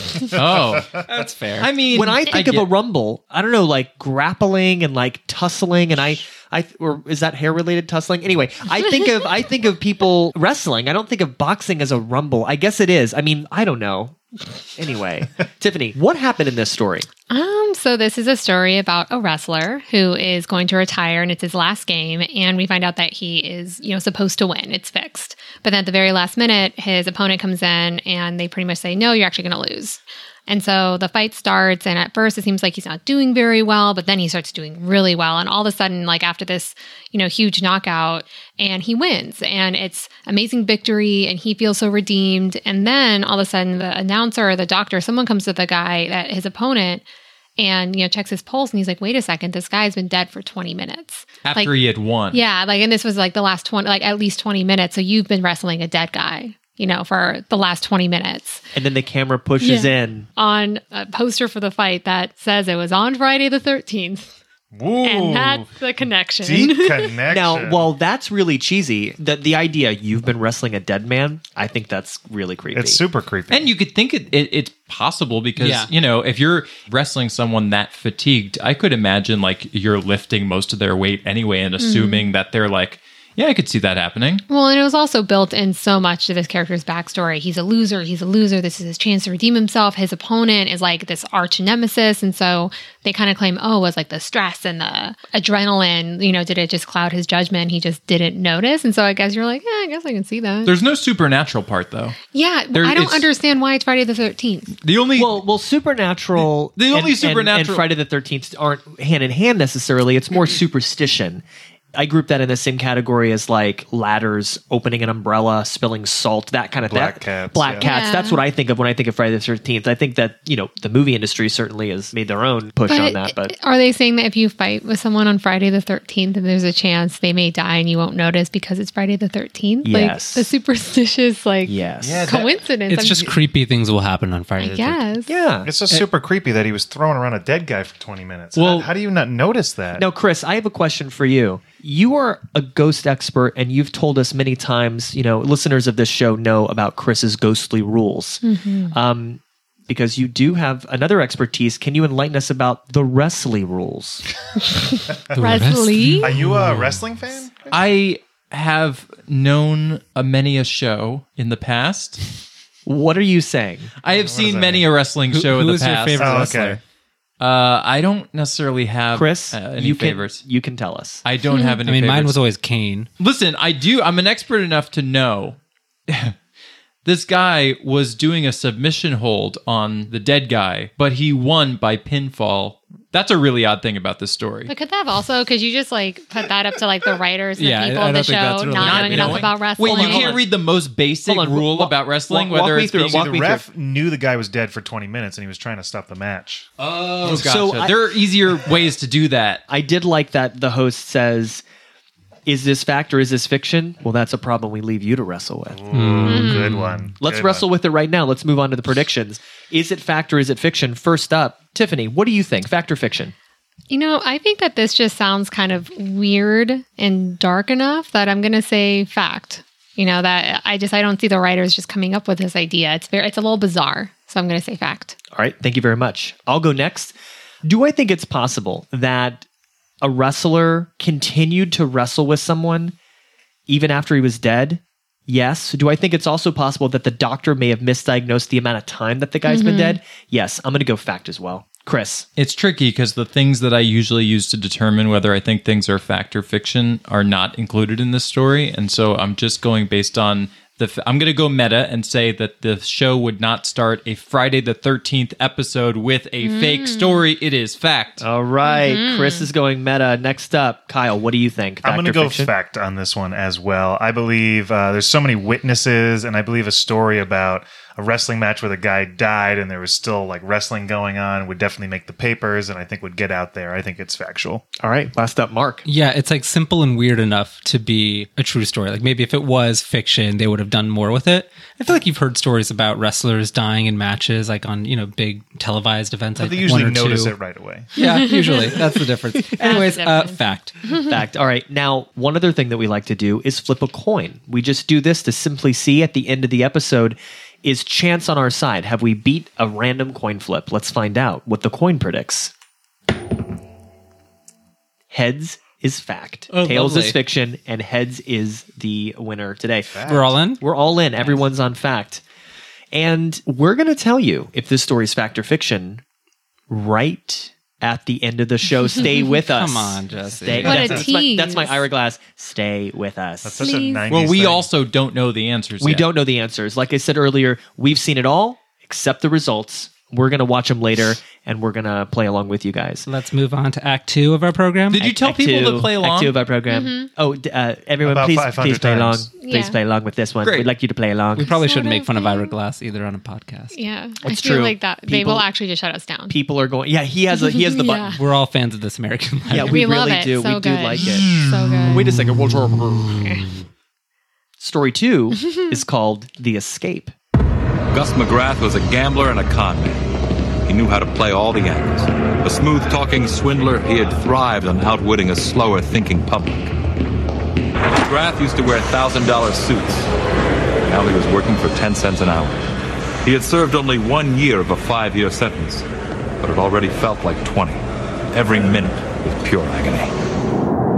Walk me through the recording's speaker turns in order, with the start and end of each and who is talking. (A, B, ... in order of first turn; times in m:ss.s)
0:00.3-0:01.0 A
0:00.4-0:01.3 B
0:01.1-0:01.7 C
0:01.6-0:02.7 A
0:01.9-0:14.2 D
0:14.8-0:17.1 D
0:17.3-0:47.0 E
0:47.6-0:51.7 E
0:51.4-0:52.4 A
0:52.3-0:58.6 E
0:58.8-1:00.3 D
0:59.6-1:04.3 E
1:04.7-1:05.7 B
1:05.0-1:07.1 E
1:06.4-1:07.9 B
1:07.3-1:13.0 D
1:12.7-1:13.7 B
1:13.5-1:24.4 A
1:15.6-1:15.9 C
1:21.8-1:22.3 E
1:24.5-1:40.7 E
1:40.6-1:42.2 A
1:42.3-1:44.7 E
1:42.7-1:43.3 A
1:44.8-1:45.4 A
1:45.2-1:51.4 D
1:46.4-1:47.9 A
1:52.0-2:03.6 D
1:56.8-1:57.9 B
1:57.8-1:58.4 E
2:02.9-2:13.3 E
2:09.8-2:10.5 D
2:11.7-2:12.4 D
2:12.0-2:12.7 B
2:12.9-2:15.1 C
2:14.6-2:15.3 E
2:15.3-2:15.7 D
2:15.6-2:20.0 B
2:18.6-2:18.9 A
2:20.0-2:34.2 D
2:28.4-2:29.0 E
2:34.7-2:36.3 E
2:35.4-2:37.0 C
2:36.2-2:37.8 B
2:37.7-2:42.2 A
2:42.9-2:43.9 D
2:44.0-2:46.6 A
2:44.1-2:44.9 B
2:45.3-2:46.8 C
2:46.2-2:46.8 B
2:47.4-2:50.4 A
2:49.1-2:51.2 D
2:51.2-2:52.4 A
2:51.5-2:51.8 E
2:51.8-2:53.1 C
2:53.2-2:56.4 A
2:57.0-3:04.7 A
3:04.7-3:10.4 E
3:07.6-3:09.6 C
3:08.8-3:13.3 A
3:09.8-3:10.5 D
3:11.2-3:13.7 D
3:13.0-3:16.7 B
3:16.8-3:19.6 A
3:17.1-3:18.2 D
3:19.7-3:21.6 D
3:22.5-3:25.9 D
3:25.7-3:27.7 B
3:25.9-3:27.1 C
3:26.3-3:26.7 E
3:27.2-3:33.3 D
3:33.9-3:45.2 E
3:45.3-3:49.4 D
3:50.0-3:52.9 D
3:53.7-4:02.3 D
3:59.5-4:00.0 E
4:02.4-4:18.2 A
4:16.4-4:17.2 E
4:18.2-4:22.5 D
4:18.6-4:19.5 E
4:21.8-4:34.6 B
4:34.8-4:35.8 D
4:35.9-4:47.4 C
4:46.4-4:47.9 B
4:48.0-4:50.9 C
4:48.0-4:49.0 E
4:49.6-4:51.0 E
4:50.9-5:02.5 D
5:05.1-5:10.0 D
5:06.5-5:07.2 C
5:09.9-5:10.5 B
5:10.0-5:10.6 C
5:10.6-5:12.2 D
5:12.9-5:16.0 D
5:16.7-5:23.7 D
5:19.3-5:21.0 C
5:20.6-5:21.8 E
5:20.6-5:21.0 B
5:23.4-5:24.7 B
5:23.6-5:24.1 E
5:24.1-5:26.1 A
5:25.8-5:33.1 D
5:33.1-5:35.0 C
5:34.9-5:36.4 A
5:35.0-5:41.5 D
5:36.7-5:37.1 E
5:38.0-5:39.3 B
5:39.4-5:39.8 E
5:40.4-5:40.7 A
5:41.4-5:43.8 C
5:41.4-5:42.6 E
5:43.7-5:46.4 E
5:44.2-5:45.5 D
5:46.3-5:48.2 D
5:47.3-5:48.2 E
5:48.1-5:49.8 C
5:49.5-5:53.3 D
5:49.6-5:52.0 E
5:53.2-5:53.4 E
5:54.6-5:57.1 D
5:55.4-5:55.8 E
5:57.9-6:00.0 F
6:00.7-6:06.7 F
6:07.9-6:10.1 F
6:10.8-6:12.6 F
6:13.2-6:15.9 F
6:16.4-6:20.1 F